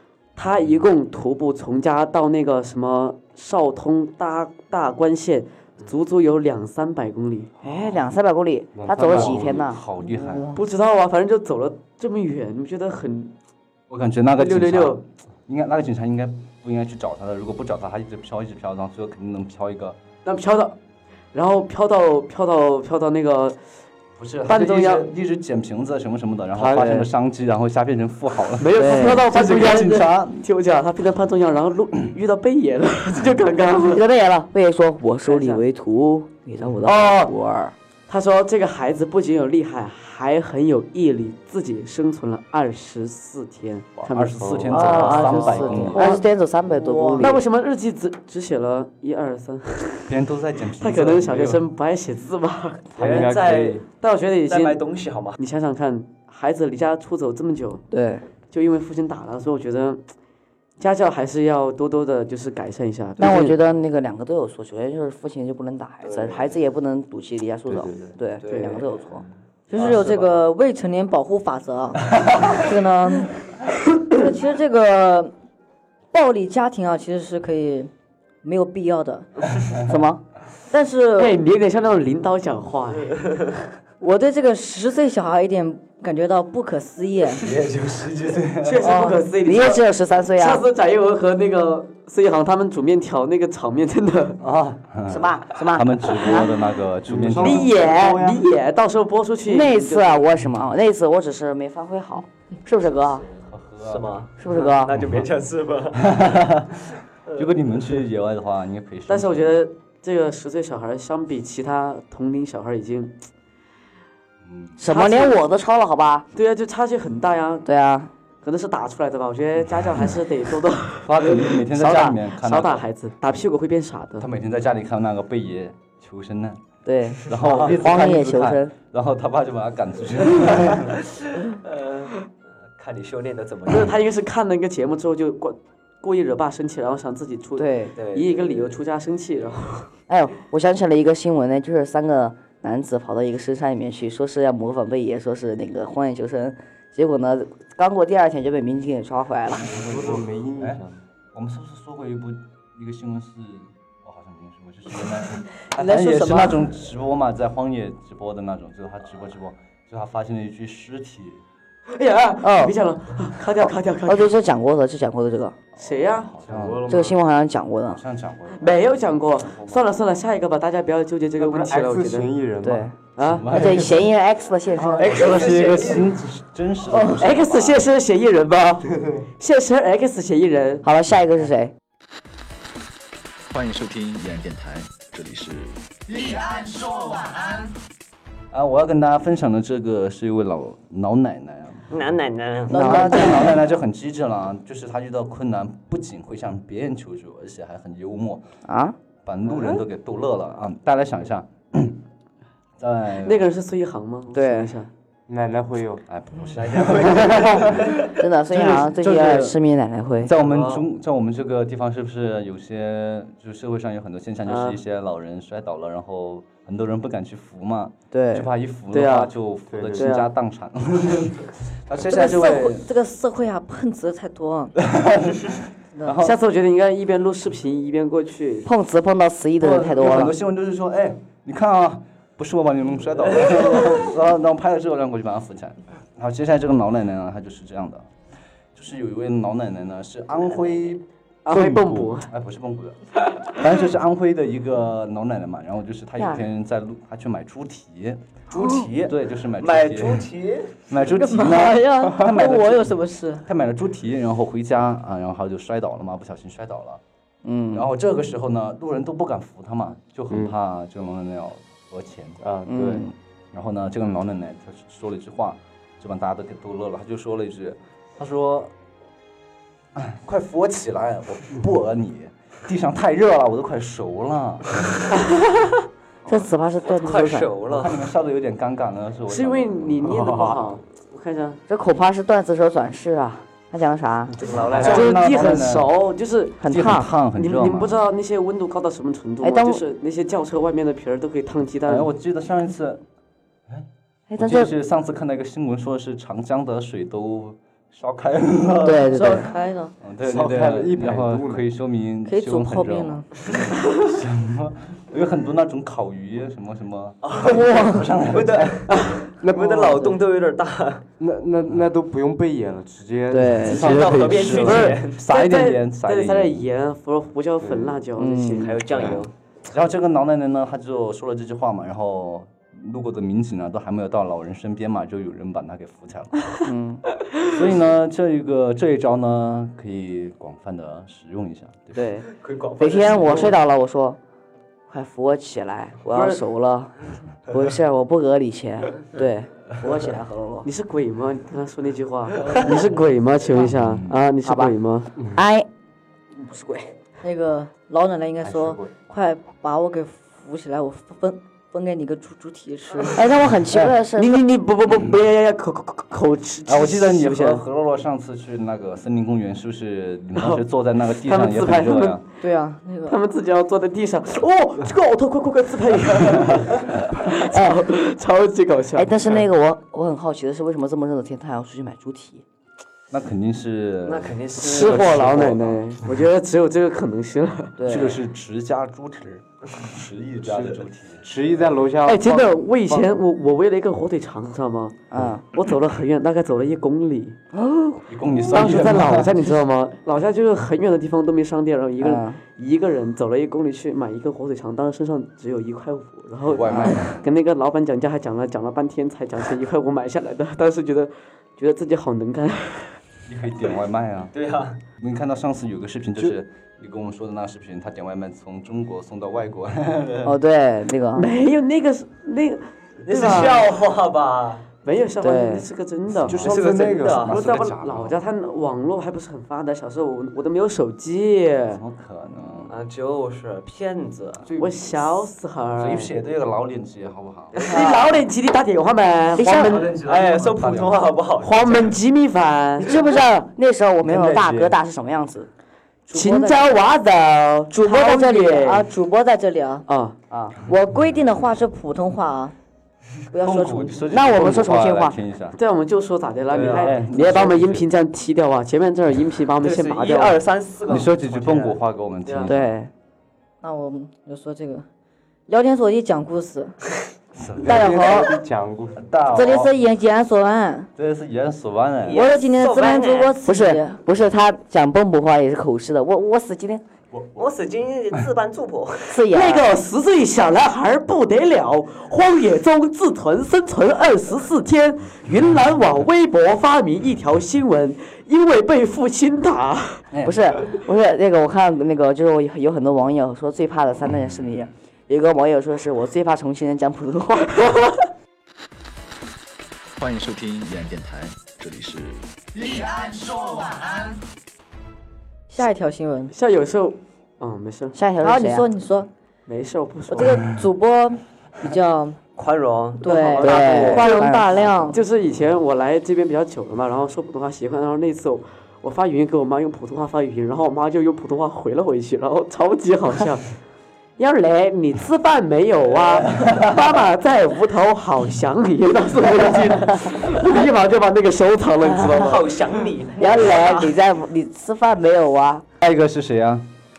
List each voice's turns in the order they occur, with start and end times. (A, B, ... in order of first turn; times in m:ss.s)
0:00.4-0:07.5 A
0:07.6-0:10.6 B
0:08.8-0:09.7 C
0:09.0-0:10.5 D
0:10.5-0:13.3 A
0:13.9-0:20.0 D
0:14.4-0:15.0 A
0:20.2-0:20.8 A
0:21.3-0:23.6 A
0:24.2-0:30.4 D
0:24.5-0:25.1 A
0:26.6-0:27.0 C
0:26.6-0:27.1 B
0:28.6-0:34.0 A
0:28.7-0:29.3 B
0:33.9-0:37.7 B
0:35.3-0:35.6 A
0:36.8-0:37.3 A
0:38.1-0:46.2 A
0:44.0-0:46.2 D
0:44.4-0:45.9 C
0:44.7-0:47.4 B
0:47.2-0:50.1 A
0:50.1-0:51.6 D
0:50.8-0:53.4 A
0:53.0-0:53.8 C
0:53.0-0:53.9 E
0:54.0-0:54.8 A
0:54.5-0:55.4 E
0:55.4-0:57.8 A
0:57.9-0:58.3 B
0:58.5-1:00.0 A
1:00.8-1:03.6 A
1:03.2-1:09.2 B
1:06.0-1:06.4 E
1:07.7-1:08.1 C
1:08.5-1:08.8 A
1:08.5-1:08.8 E
1:09.7-1:13.5 F
1:09.8-1:10.2 E
1:14.1-1:15.3 F
1:16.1-1:17.9 F
1:18.4-1:19.3 F
1:19.8-1:20.2 B
1:20.7-1:21.4 F
1:21.2-1:23.2 A
1:24.0-1:27.4 F
1:27.4-1:29.0 D
1:28.6-1:29.8 A
1:28.8-1:29.2 F
1:29.2-1:30.6 B
1:30.4-1:34.4 A
1:34.4-1:34.8 C
1:34.9-1:37.7 D
1:35.1-1:36.6 B
1:37.1-1:38.4 C
1:37.4-1:40.2 A
1:37.6-1:38.2 B
1:39.5-1:43.2 B
1:43.4-1:44.2 D
1:43.8-1:46.4 E
1:44.4-1:44.9 B
1:44.9-1:45.3 D
1:45.9-1:49.6 D
1:47.3-1:48.0 E
1:49.1-1:53.2 A
1:54.4-1:54.8 D
1:54.8-1:56.3 B
1:54.9-1:55.4 A
1:56.3-1:57.7 A
1:57.6-1:58.1 B
1:58.4-2:04.3 A
2:01.0-2:02.8 D
2:04.2-2:06.6 D
2:06.9-2:08.7 B
2:07.3-2:11.0 D
2:07.5-2:07.7 A
2:11.5-2:12.1 E
2:12.8-2:14.0 E
2:13.7-2:19.9 A
2:17.6-2:17.9 B
2:18.0-2:18.7 E
2:20.1-2:29.8 B
2:29.7-2:31.0 C
2:29.7-2:30.8 D
2:31.3-2:41.4 D
2:35.7-2:36.6 F
2:41.9-2:44.3 A
2:42.4-2:42.8 B
2:44.1-2:45.6 B
2:45.8-2:46.3 A
2:45.8-2:47.1 D
2:46.4-2:47.0 E
2:46.9-2:48.0 B
2:47.9-2:49.0 D
2:48.6-2:52.3 A
2:51.4-2:52.9 C
2:52.6-2:52.9 B
2:53.2-2:53.5 A
2:53.2-2:54.1 D
2:53.5-2:55.4 B
2:55.0-2:56.2 E
2:55.0-2:57.7 D
2:57.2-3:00.9 A
2:58.9-2:59.3 C
3:00.8-3:01.7 B
3:03.5-3:05.8 G
3:08.5-3:11.9 D
3:11.9-3:12.8 E
3:12.7-3:13.5 B
3:12.7-3:18.4 D
3:12.8-3:13.0 F
3:18.6-3:19.0 B
3:19.2-3:22.0 D
3:22.8-3:23.4 D
3:23.2-3:24.9 A
3:24.3-3:24.7 B
3:25.3-3:26.0 C
3:26.1-3:29.6 D
3:26.6-3:28.1 E
3:28.1-3:30.3 B
3:30.2-3:42.8 D
3:30.4-3:30.8 E
3:34.4-3:34.8 A
3:38.1-3:38.5 B
3:38.9-3:39.3 A
3:39.7-3:40.1 C
3:39.9-3:40.3 A
3:42.1-3:44.7 F
3:44.8-3:46.4 D
3:46.0-3:46.2 F
3:46.2-3:48.7 A
3:48.6-3:50.4 B
3:49.6-3:58.1 D
3:58.7-4:01.0 D
4:01.5-4:02.3 A
4:01.5-4:02.1 C
4:02.2-4:08.3 D
4:06.2-4:06.4 B
4:08.5-4:10.8 E
4:09.0-4:10.3 D
4:10.9-4:17.0 D
4:11.0-4:13.4 F
4:17.4-4:17.9 B
4:17.7-4:22.4 D
4:22.4-4:23.1 C
4:22.7-4:23.1 B
4:23.5-4:28.7 D
4:30.0-4:34.8 D
4:36.3-4:37.5 B
4:37.0-4:38.1 E
4:37.7-4:40.1 D
4:39.3-4:41.6 A
4:40.1-4:40.6 C
4:41.7-4:44.4 B
4:44.4-4:45.2 E
4:44.7-4:45.9 D
4:44.8-4:52.1 A
4:46.6-4:47.1 B
4:46.7-4:48.0 D
4:49.4-4:49.8 B
4:51.9-4:53.0 D
4:53.7-5:03.2 D
4:54.3-4:54.7 B
4:58.8-4:59.5 B
4:59.1-5:00.0 F
5:00.2-5:01.6 C
5:02.3-5:03.3 F
5:03.8-5:09.0 D
5:07.2-5:07.6 E
5:07.4-5:08.1 F
5:08.3-5:11.0 E
5:08.9-5:09.2 A
5:09.4-5:10.2 C
5:11.2-5:14.8 C
5:13.3-5:13.9 B
5:13.6-5:16.7 D
5:13.7-5:15.2 E
5:14.6-5:19.1 A
5:17.6-5:18.0 C
5:18.2-5:18.8 B
5:18.6-5:19.3 E
5:19.7-5:26.6 D
5:26.6-5:27.0 B
5:27.4-5:32.0 D
5:31.9-5:34.2 B
5:32.3-5:33.5 E
5:34.9-5:36.9 B
5:36.1-5:36.4 A
5:37.5-5:40.7 B
5:40.6-5:45.1 A
5:43.7-5:44.2 D
5:44.4-5:44.7 B
5:45.3-5:45.7 B
5:46.3-5:46.9 B
5:47.2-5:53.2 F
5:48.4-5:48.9 C
5:53.1-5:54.4 B
5:53.8-5:57.6 A
5:56.7-6:02.2 D
6:00.4-6:00.6 A
6:01.2-6:02.2 A
6:02.4-6:03.2 F
6:03.1-6:09.1 A
6:07.4-6:07.9 B
6:09.0-6:12.4 B
6:13.1-6:15.8 D
6:14.0-6:15.3 E
6:14.6-6:17.8 A
6:17.8-6:18.2 B
6:17.8-6:21.5 D
6:20.5-6:20.8 E
6:21.2-6:23.1 C
6:22.0-6:25.0 A
6:25.1-6:25.4 B
6:25.5-6:27.4 A
6:27.5-6:29.3 B
6:28.1-6:29.3 D
6:28.5-6:43.0 A
6:32.0-6:32.4 B
6:36.5-6:37.3 D
6:36.7-6:37.0 B
6:43.3-6:44.3 D
6:44.3-6:44.8 E
6:45.0-6:50.4 D
6:50.2-6:51.3 B
6:51.2-6:53.7 A
6:53.0-6:54.7 E
6:54.8-6:56.4 A
6:55.2-6:55.7 B
6:56.3-6:58.2 D
6:56.3-6:57.3 C
6:56.4-6:57.4 E
6:57.2-7:01.8 A
7:01.7-7:02.8 D
7:02.7-7:04.5 E
7:04.5-7:06.1 A
7:05.8-7:07.6 D
7:07.5-7:08.0 E
7:07.6-7:09.9 A
7:07.6-7:08.0 B
7:09.4-7:09.9 B
7:09.5-7:11.1 D
7:10.0-7:12.0 E
7:11.4-7:12.9 A
7:12.8-7:15.5 B
7:14.0-7:14.7 D
7:16.1-7:16.8 F
7:16.1-7:18.8 A
7:17.7-7:19.8 F
7:19.9-7:20.2 A
7:20.3-7:20.6 B
7:20.7-7:22.6 F
7:23.3-7:24.1 F
7:23.4-7:25.6 D
7:24.1-7:25.2 B
7:25.6-7:30.4 A
7:26.5-7:27.9 D
7:26.6-7:26.9 E
7:29.6-7:32.5 E
7:30.9-7:32.7 D
7:32.5-7:32.9 B
7:33.6-7:34.9 F
7:35.5-7:36.8 F
7:37.4-7:37.9 D
7:37.6-7:39.1 C
7:37.6-7:38.4 F
7:39.0-7:39.7 D
7:39.3-7:40.9 F
7:41.0-7:42.3 D
7:42.0-7:43.4 E
7:42.1-7:44.0 F
7:43.4-7:46.8 B
7:47.4-7:49.2 E
7:49.1-7:49.7 B
7:49.3-8:00.0 A
8:00.2-8:07.8 B
8:10.0-8:12.2 G
8:15.5-8:16.3 F
8:16.3-8:18.0 A
8:17.9-8:18.7 B
8:18.2-8:19.1 F
8:19.5-8:20.4 A
8:20.1-8:22.2 F
8:22.4-8:24.0 E
8:23.0-8:25.0 F
8:23.0-8:24.2 A
8:23.4-8:24.5 B
8:24.9-8:33.5 A
8:34.2-8:42.4 A
8:36.4-8:36.6 D
8:42.0-8:43.9 E
8:43.2-8:45.6 B
8:45.8-8:46.7 D